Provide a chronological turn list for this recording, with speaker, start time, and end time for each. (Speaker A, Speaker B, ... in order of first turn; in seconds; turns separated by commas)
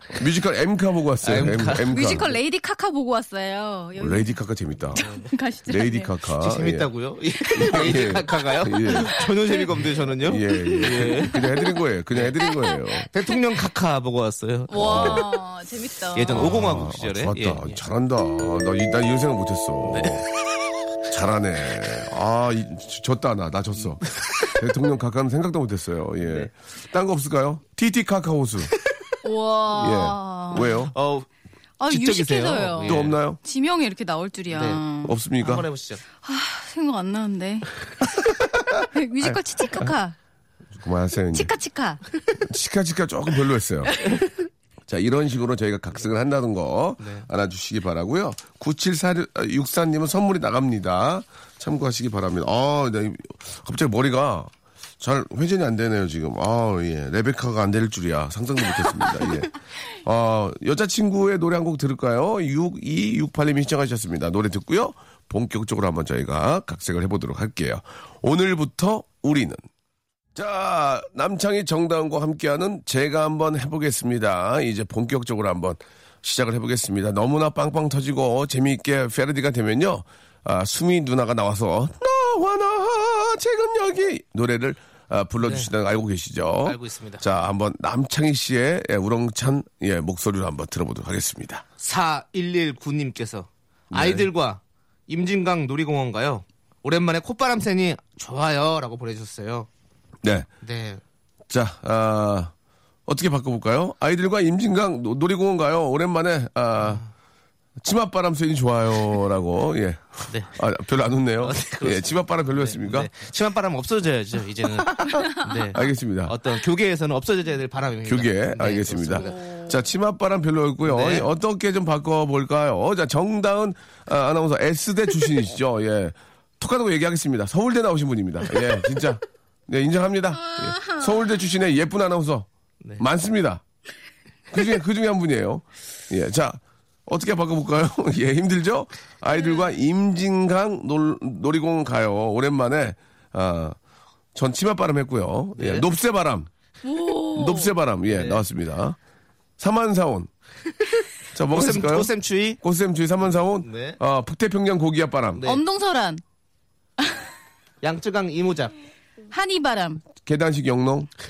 Speaker A: 0.1-2.4, Speaker B: 1.2-2.2, Speaker C: 1.8-4.4, Speaker A: 4.0-5.0, Speaker C: 5.0-6.1, Speaker B: 5.0-5.3, Speaker A: 5.7-6.9, Speaker B: 6.4-11.4, Speaker A: 7.5-9.2, Speaker C: 9.1-10.7, Speaker A: 10.2-13.1, Speaker C: 11.3-11.8, Speaker C: 12.4-12.8, Speaker B: 13.1-15.3, Speaker C: 14.7-16.6, Speaker A: 14.8-15.3, Speaker B: 16.1-17.8, Speaker A: 16.3-20.2, Speaker B: 19.9-20.2, Speaker A: 21.1-28.7, Speaker B: 26.2-26.5, Speaker C: 29.2-30.7, Speaker A: 29.8-30.9, Speaker B: 30.5-31.3, Speaker C: 31.8-35.2, Speaker B: 31.9-33.2, Speaker A: 32.8-33.4, Speaker B: 34.5-34.8, Speaker A: 35.0-35.6, Speaker B: 35.4-36.0, Speaker C: 36.2-37.7, Speaker C: 38.9-40.1, Speaker A: 39.2-39.9, Speaker A: 40.8-41.5, Speaker C: 41.3-42.0, Speaker A: 42.4-44.0, Speaker A: 44.9-69.6, Speaker B: 47.0-47.3, Speaker A: 70.3-91.6, Speaker B: 85.4-85.7, Speaker B: 86.6-87.2, Speaker B: 91.8-99.7, Speaker A: 93.9-94.3, Speaker A: 100.2-100.5, Speaker B: 100.6-101.0, Speaker A: 101.5-102.5, Speaker A: 103.1-107.0, Speaker B: 106.8-107.1, Speaker A: 107.8-113.1, Speaker B: 111.4-119.4, Speaker A: 114.6-116.4, Speaker A: 118.0-132.5, Speaker C: 119.1-119.8, Speaker B: 120.8-121.3, Speaker C: 130.7-131.0, Speaker A: 133.0-133.6, Speaker A: 134.5-143.8, Speaker C: 139.3-139.7, Speaker A: 144.3-146.5, Speaker B: 145.6-145.9, Speaker C: 146.8-147.7, Speaker A: 147.3-149.0, Speaker B: 148.1-148.4, Speaker A: 149.6-150.3, Speaker A: 151.3-155.4, Speaker B: 151.5-152.6, Speaker B: 153.6-154.0, Speaker B: 155.3-155.6, Speaker C: 155.4-156.2, Speaker B: 157.8-158.7, Speaker C: 159.3-160.0, Speaker A: 160.2-161.1